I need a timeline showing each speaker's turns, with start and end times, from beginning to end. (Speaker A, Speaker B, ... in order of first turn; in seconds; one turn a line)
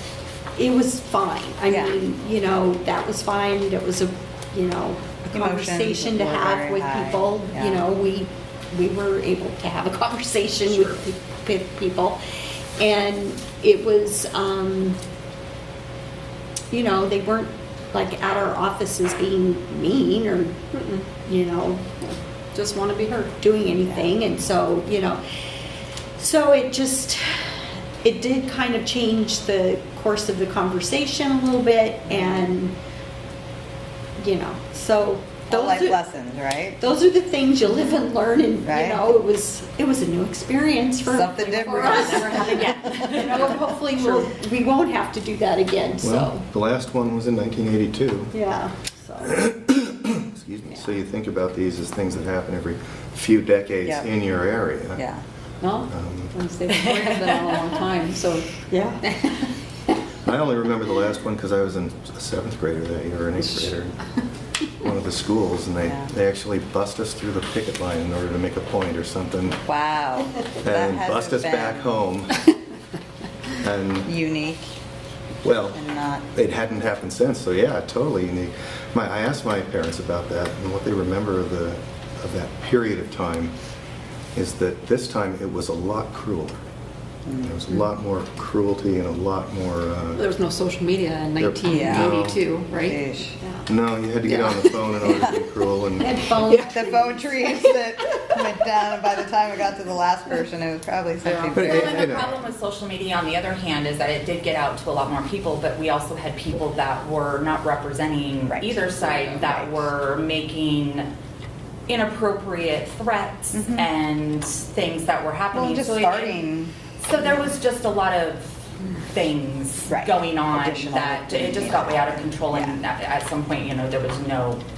Speaker A: 0.6-12.2
Speaker B: 1.7-2.0
Speaker B: 5.3-7.8
Speaker A: 12.8-15.0
Speaker A: 16.7-20.6
Speaker C: 20.7-21.1
Speaker A: 21.2-21.9
Speaker C: 22.5-23.4
Speaker A: 23.4-25.2
Speaker A: 26.2-27.4
Speaker A: 28.0-32.7
Speaker B: 32.1-32.5
Speaker A: 34.2-36.0
Speaker B: 35.5-36.8
Speaker A: 36.8-46.4
Speaker B: 38.6-39.0
Speaker B: 41.1-43.2
Speaker D: 41.4-44.3
Speaker E: 46.0-48.4
Speaker A: 48.3-49.4
Speaker E: 49.3-55.0
Speaker B: 53.9-54.1
Speaker B: 55.0-55.2
Speaker C: 55.6-59.4
Speaker E: 55.9-56.3
Speaker D: 57.2-57.5
Speaker A: 58.7-59.0
Speaker E: 60.2-64.0
Speaker E: 64.8-69.6
Speaker B: 65.8-66.1
Speaker B: 69.7-71.9
Speaker E: 70.6-72.4
Speaker E: 73.5-74.1
Speaker B: 74.0-74.6
Speaker E: 75.4-75.8
Speaker B: 75.7-76.3
Speaker E: 76.3-83.5
Speaker E: 84.3-86.6
Speaker B: 87.3-87.5
Speaker E: 87.4-90.2
Speaker C: 90.1-93.0
Speaker E: 91.4-92.4
Speaker B: 91.7-92.2
Speaker B: 92.7-93.3
Speaker A: 93.4-93.7
Speaker E: 93.7-96.1
Speaker B: 94.3-95.4
Speaker A: 96.0-97.8
Speaker B: 96.5-102.2
Speaker C: 101.3-101.5
Speaker E: 101.5-102.4
Speaker D: 101.6-111.1
Speaker B: 108.5-109.9
Speaker D: 111.9-116.4
Speaker B: 113.5-113.9
Speaker B: 115.5-116.7
Speaker D: 117.0-124.6
Speaker B: 119.9-122.8